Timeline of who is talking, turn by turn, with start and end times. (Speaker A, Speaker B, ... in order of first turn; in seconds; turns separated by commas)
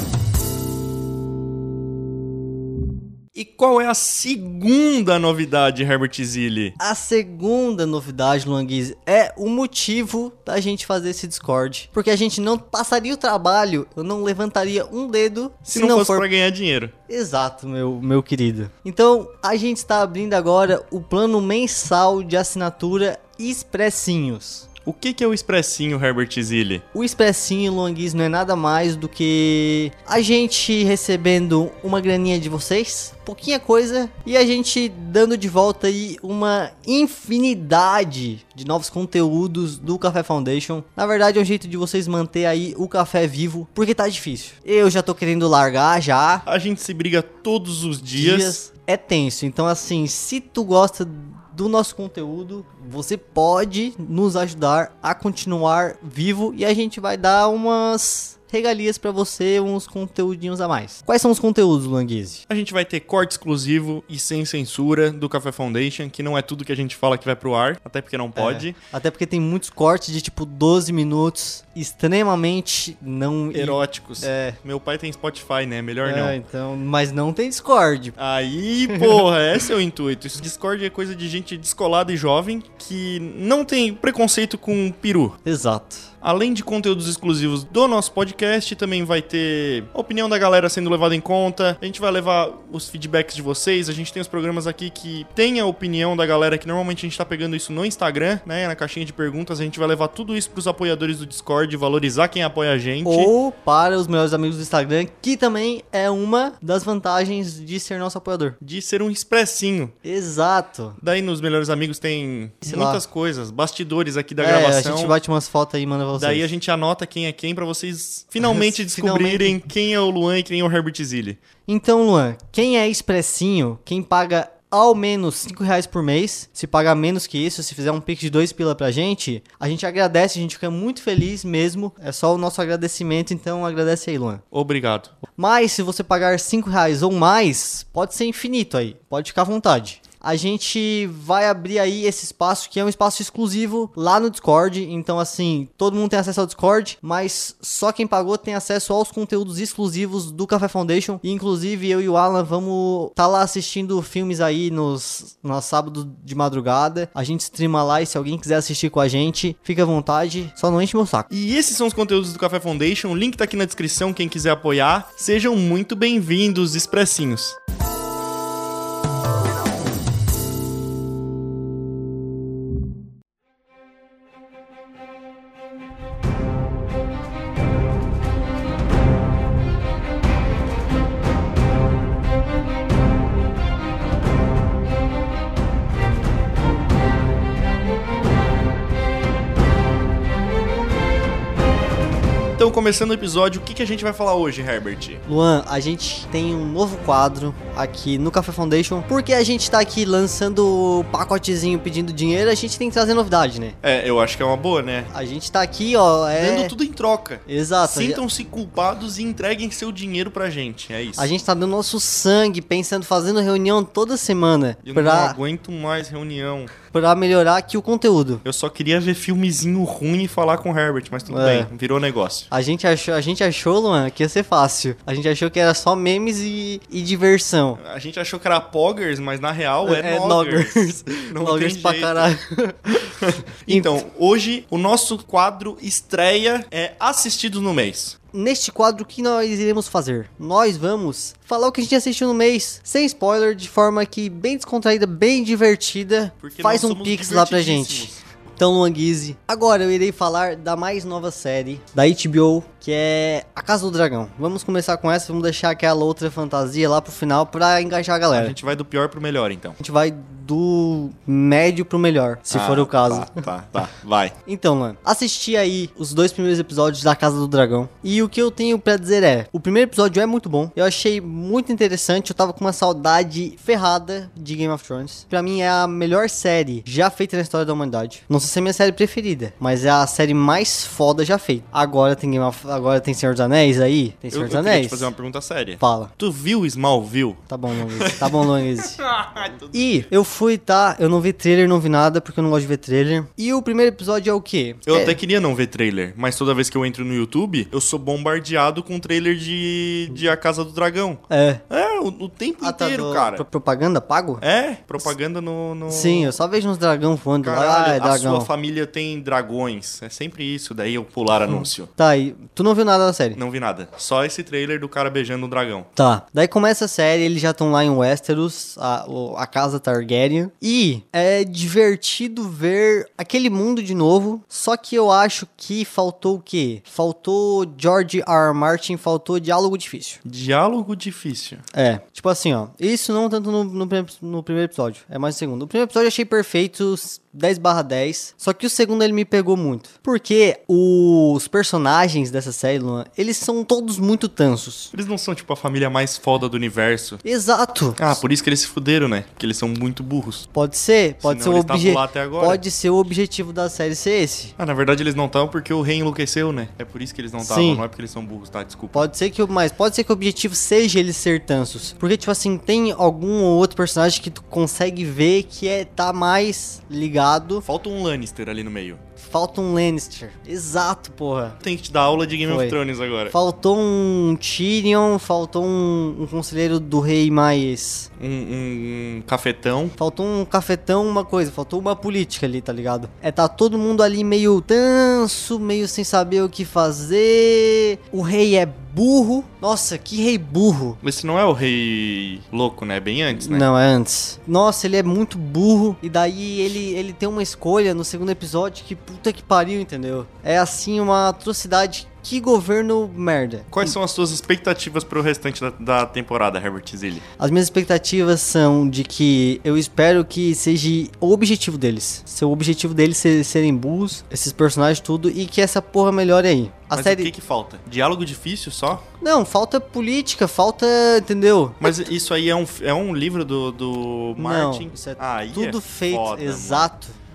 Speaker A: 3.3-6.7, Speaker B: 6.8-16.2, Speaker A: 15.7-16.9, Speaker B: 17.1-24.6, Speaker A: 24.8-26.8, Speaker B: 26.9-46.4, Speaker A: 46.5-48.6, Speaker B: 48.1-62.4, Speaker A: 62.5-68.8, Speaker B: 68.3-74.6, Speaker A: 73.5-76.4, Speaker B: 76.0-78.2, Speaker A: 78.2-85.4, Speaker B: 85.4-86.1, Speaker A: 86.2-103.3, Speaker B: 103.0-108.5, Speaker A: 108.6-109.9, Speaker B: 110.0-111.0, Speaker A: 111.0-115.1, Speaker B: 112.6-113.0, Speaker B: 114.4-116.5, Speaker A: 116.2-121.4, Speaker B: 118.4-119.6, Speaker B: 121.7-134.4, Speaker A: 134.5-135.1, Speaker B: 135.4-161.3, Speaker A: 161.3-167.6, Speaker A: 192.6-195.2, Speaker B: 195.2-203.8, Speaker A: 203.8-205.1, Speaker B: 205.1-206.7, Speaker A: 206.3-211.3, Speaker B: 207.5-208.2, Speaker B: 211.2-215.4, Speaker A: 214.8-216.7, Speaker B: 216.9-218.4, Speaker A: 218.4-222.5, Speaker B: 221.3-221.7, Speaker B: 222.5-227.8, Speaker A: 227.8-232.3, Speaker B: 229.8-233.1, Speaker A: 233.0-238.2, Speaker B: 233.7-234.0, Speaker B: 238.3-258.5, Speaker A: 246.4-248.2, Speaker A: 258.3-259.8, Speaker B: 259.8-263.4, Speaker A: 262.5-264.3, Speaker B: 264.4-285.1, Speaker A: 284.3-290.1, Speaker B: 285.8-286.1, Speaker B: 287.5-289.0, Speaker B: 289.7-295.2, Speaker A: 294.9-303.4, Speaker B: 301.3-301.6, Speaker B: 302.6-304.4, Speaker A: 304.4-306.4, Speaker B: 305.9-308.5, Speaker A: 307.4-311.9, Speaker B: 311.5-313.4, Speaker A: 313.4-315.9, Speaker B: 316.0-330.2, Speaker A: 330.2-331.6, Speaker B: 331.7-344.9, Speaker A: 344.9-347.2, Speaker B: 347.2-348.2, Speaker A: 348.0-350.4, Speaker B: 350.5-354.5, Speaker A: 351.2-352.6, Speaker A: 354.6-359.1, Speaker B: 357.4-357.8, Speaker B: 358.9-367.6, Speaker A: 367.6-369.0, Speaker B: 369.2-371.6, Speaker A: 371.6-373.3, Speaker B: 372.5-372.8, Speaker B: 373.3-378.1, Speaker A: 378.2-379.9, Speaker B: 380.0-391.0, Speaker A: 391.0-393.6, Speaker B: 393.3-403.9, Speaker A: 403.7-407.2, Speaker B: 407.4-417.3, Speaker A: 416.9-419.0, Speaker B: 419.2-421.9, Speaker A: 421.8-426.9, Speaker B: 424.4-427.1